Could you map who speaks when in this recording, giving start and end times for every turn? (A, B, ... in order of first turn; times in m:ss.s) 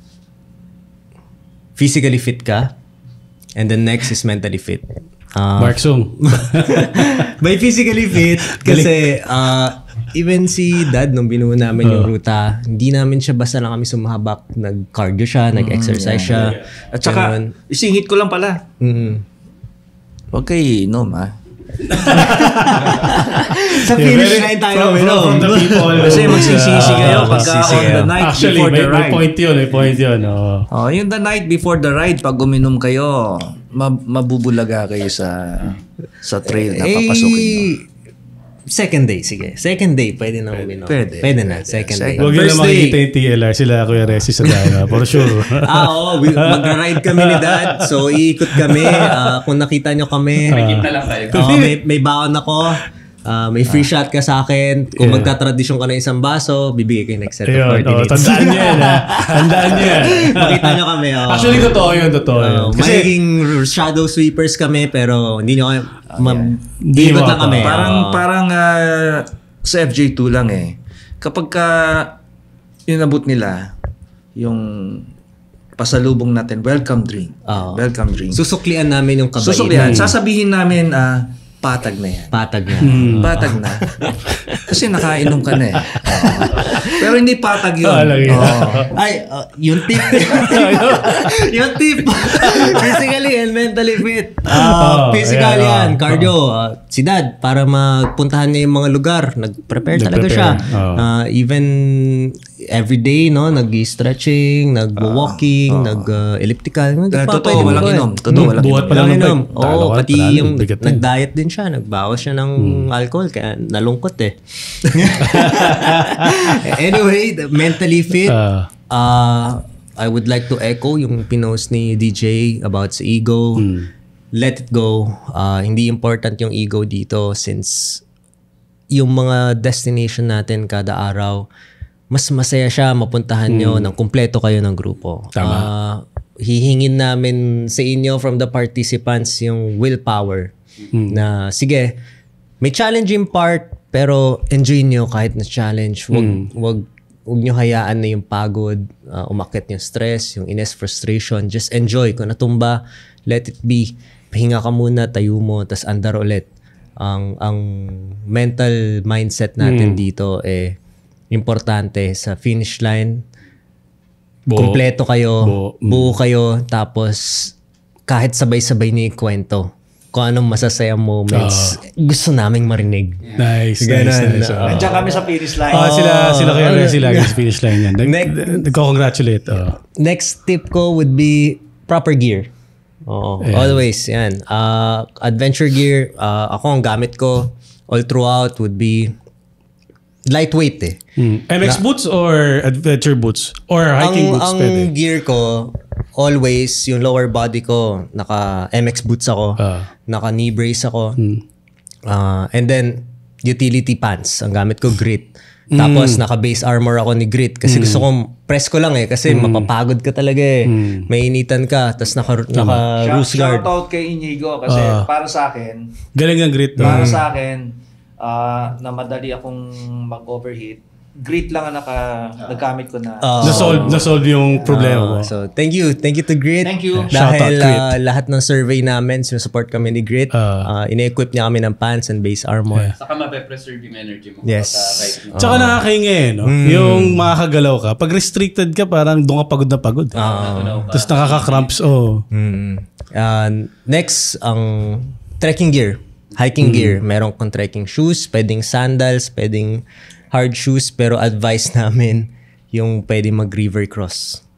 0:01.8-0:02.8 A
0:03.6-0:17.5 A
0:05.6-0:07.1 B
0:08.5-0:09.1 B
0:11.8-0:12.1 B
0:15.6-0:18.7 C
0:18.8-0:19.2 A
0:20.3-0:21.4 C
0:21.9-0:30.7 B
0:22.1-0:28.1 A
0:26.0-0:29.3 C
0:30.7-0:37.7 C
0:36.5-0:37.8 A
0:38.7-0:43.0 A
0:40.8-0:42.4 C
0:42.2-0:48.0 B
0:44.4-0:50.6 A
0:48.5-0:49.3 B
0:50.5-0:51.8 B
0:50.5-0:51.6 D
0:51.3-1:08.3 A
0:55.0-0:55.3 B
0:57.5-1:03.1 B
1:06.1-1:06.6 C
1:06.8-1:07.9 B
1:07.6-1:12.2 C
1:12.9-1:13.7 C
1:14.4-1:15.1 C
1:15.8-1:18.4 C
1:17.5-1:20.1 A
1:19.4-1:22.4 C
1:19.8-1:20.1 B
1:22.3-1:24.7 A
1:22.8-1:23.4 B
1:23.2-1:23.9 C
1:24.6-1:28.9 C
1:25.9-1:26.7 B
1:26.2-1:27.1 A
1:27.8-1:28.9 B
1:28.3-2:03.6 A
1:30.0-1:31.4 B
1:32.3-1:32.8 B
1:34.5-1:36.3 B
1:39.9-1:41.1 B
1:45.0-1:46.2 C
1:47.1-1:49.3 C
1:47.6-1:51.0 B
1:52.6-1:52.9 B
1:55.2-1:56.6 B
1:58.3-1:58.7 B
2:03.6-2:03.9 B
2:04.3-2:08.0 A
2:08.9-2:11.5 A
2:12.1-2:20.5 A
2:13.5-2:13.9 B
2:15.4-2:15.7 B
2:20.9-2:21.2 B
2:21.1-2:22.0 A
2:22.6-2:36.5 A
2:26.1-2:26.5 B
2:37.0-2:40.8 A
2:39.6-2:40.0 B
2:41.3-2:43.2 A
2:44.5-2:44.8 B
2:44.5-2:47.6 A
2:45.4-2:46.2 B
2:48.1-2:55.1 A
2:51.3-2:51.8 B
2:53.4-2:54.9 B
2:54.6-2:56.1 C
2:55.7-2:58.6 A
2:55.7-2:59.8 B
2:59.8-3:02.5 A
3:03.1-3:09.1 A
3:03.4-3:03.8 B
3:10.3-3:11.0 A
3:11.2-3:14.9 B
3:14.0-3:21.2 A
3:19.6-3:19.9 B
3:22.1-3:33.7 A
3:25.7-3:26.2 B
3:27.7-3:28.1 B
3:29.3-3:29.7 B
3:30.7-3:31.1 B
3:32.6-3:32.8 B
3:32.8-3:35.9 C
3:34.7-3:35.1 B
3:36.2-3:37.1 B
3:36.8-3:44.0 C
3:36.8-3:37.2 A
3:43.2-3:52.9 A
3:43.4-3:45.3 B
3:46.6-3:47.1 C
3:47.0-3:48.0 B
3:50.3-3:50.7 B
3:52.9-3:55.4 D
3:54.4-3:55.8 A
3:55.4-4:00.2 B
3:56.4-3:57.3 A
4:00.1-4:01.7 D
4:00.2-4:00.9 A
4:00.9-4:02.3 B
4:02.3-4:14.4 A
4:06.6-4:07.0 B